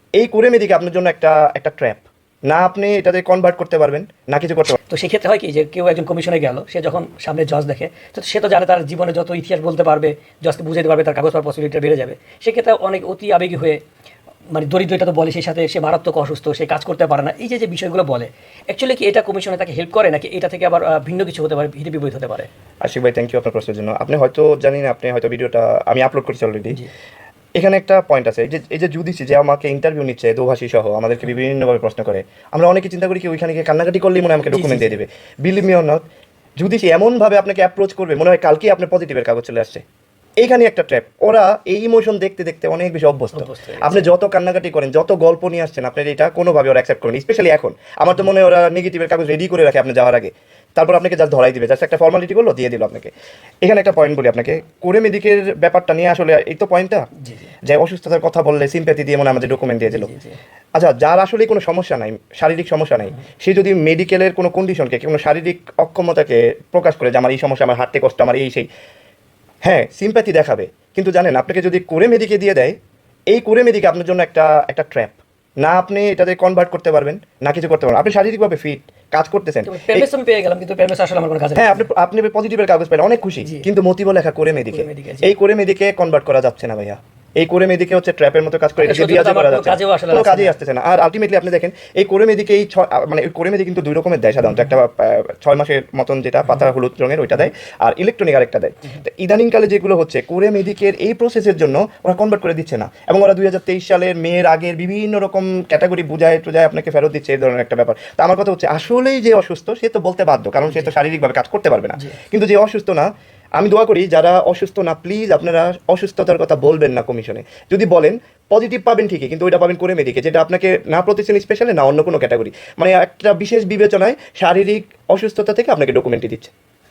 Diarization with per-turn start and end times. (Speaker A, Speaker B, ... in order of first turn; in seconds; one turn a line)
Speaker A: 0.2-4.8
Speaker B: 4.9-13.8
Speaker B: 14.5-22.5
Speaker A: 22.8-26.8
Speaker A: 27.6-36.0
Speaker B: 34.5-34.9
Speaker A: 36.6-39.8
Speaker A: 40.4-53.1
Speaker B: 43.4-44.1
Speaker A: 53.6-57.1
Speaker B: 57.2-57.5
Speaker A: 57.6-60.1
Speaker B: 59.9-60.4
Speaker A: 60.8-68.7
Speaker A: 69.6-72.8
Speaker A: 73.3-80.1
Speaker B: 79.7-81.9
Speaker A: 81.6-126.5
Speaker B: 84.7-85.3
Speaker B: 88.8-90.6
Speaker B: 110.7-110.9